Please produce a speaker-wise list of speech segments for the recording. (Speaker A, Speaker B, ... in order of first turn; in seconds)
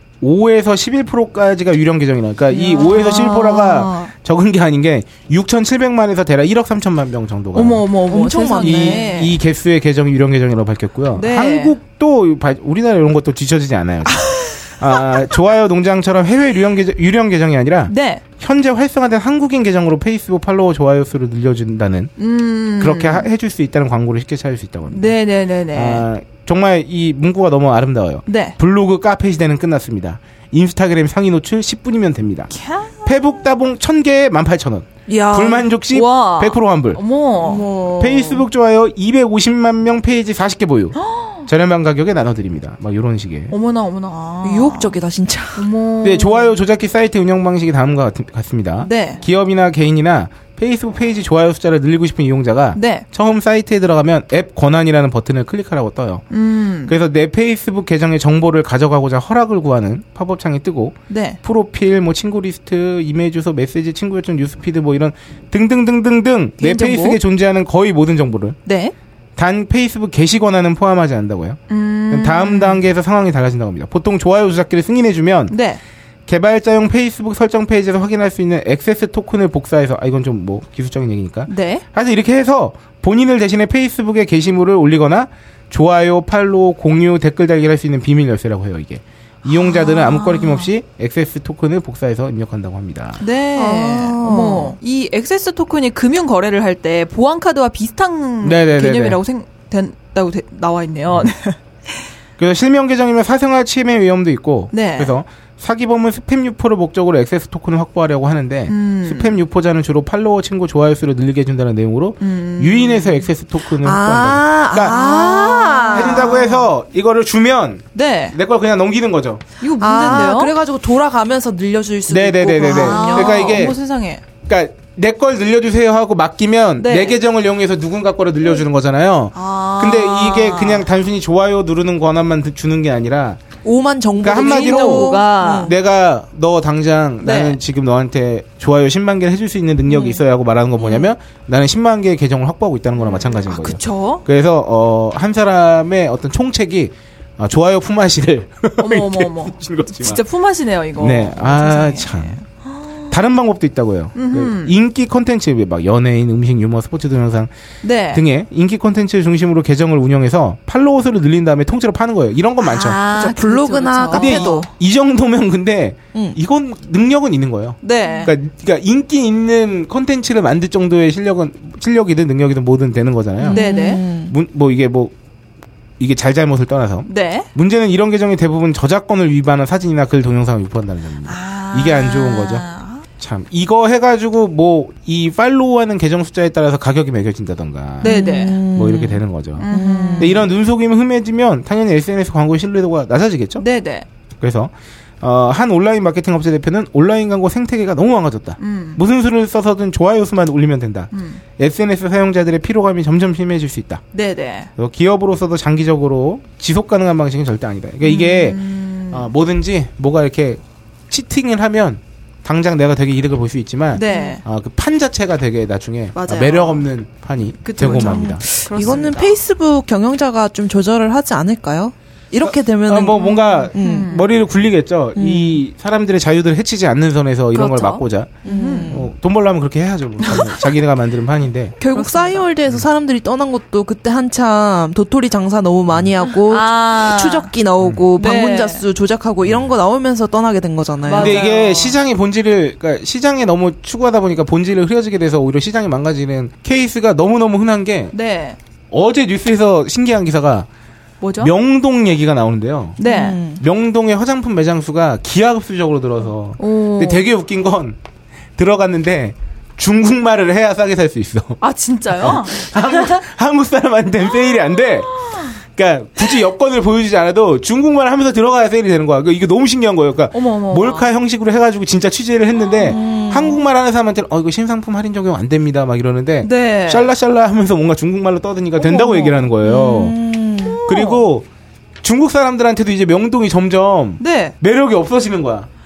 Speaker A: 0.2-7.9, 8.5-22.1, 22.8-25.1, 25.7-32.5, 33.0-37.0, 38.0-43.5, 46.0-56.2, 56.9-68.6, 69.4-75.5, 76.3-93.2, 98.4-99.2, 102.4-115.0, 115.9-119.4, 122.1-123.8, 124.5-133.4, 134.2-150.2, 151.0-152.4, 153.1-157.5, 158.1-163.0, 164.1-175.1, 176.0-182.7, 183.2-188.2, 188.7-193.6, 194.4-204.0, 204.8-219.0, 222.4-231.7, 239.4-239.7, 241.2-248.1, 248.9-250.7, 251.4-253.0, 253.6-258.0, 258.6-261.6, 262.1-280.2, 280.9-281.4, 282.0-285.7
Speaker B: 2.5-4.1, 7.5-9.4, 11.1-11.8, 17.9-18.2, 22.2-23.3, 24.9-26.0, 28.3-28.6, 32.5-33.4, 35.9-37.7, 41.0-41.5, 43.5-45.0, 45.5-46.5, 48.8-49.2, 52.7-53.0, 56.3-56.9, 61.1-61.4, 66.6-67.2, 68.7-68.9, 71.7-72.8, 75.5-75.8, 81.5-81.8, 89.4-90.7, 93.2-101.6, 104.7-105.1, 108.7-109.4, 112.2-113.3, 114.8-116.7, 117.9-118.3, 119.6-120.5, 122.6-124.2, 126.8-127.2, 129.3-130.9, 134.2-135.7, 137.2-137.6, 143.1-144.2, 148.8-152.5, 154.1-154.7, 157.8-158.2, 162.6-164.6, 167.8-168.3, 173.5-174.0, 177.1-177.5, 181.2-183.0, 188.0-188.6, 189.6-190.4, 193.6-194.1, 198.6-199.0, 201.1-201.4, 204.1-204.7, 208.0-209.3, 213.9-214.4, 216.1-216.9, 217.6-219.4, 223.2-224.3, 227.5-229.0, 230.2-230.6, 231.8-232.5, 236.5-237.5, 238.2-238.8, 241.0-242.0, 248.1-248.6, 251.2-251.5, 253.0-253.4, 256.6-257.2, 261.6-263.1, 264.9-265.5, 270.3-271.1, 276.4-277.1, 279.0-279.3, 280.6-281.3, 284.2-284.5
Speaker C: 8.1-9.1, 35.1-35.6, 37.4-38.4, 44.4-45.7, 93.5-94.8, 113.8-116.5, 119.8-123.7, 133.6-135.7, 163.1-164.7, 168.0-168.3, 173.4-174.3, 188.0-190.4, 214.1-214.4, 217.8-224.1, 225.2-225.6, 228.4-229.1, 231.8-241.4, 253.0-253.6, 272.9-273.6, 278.8-280.8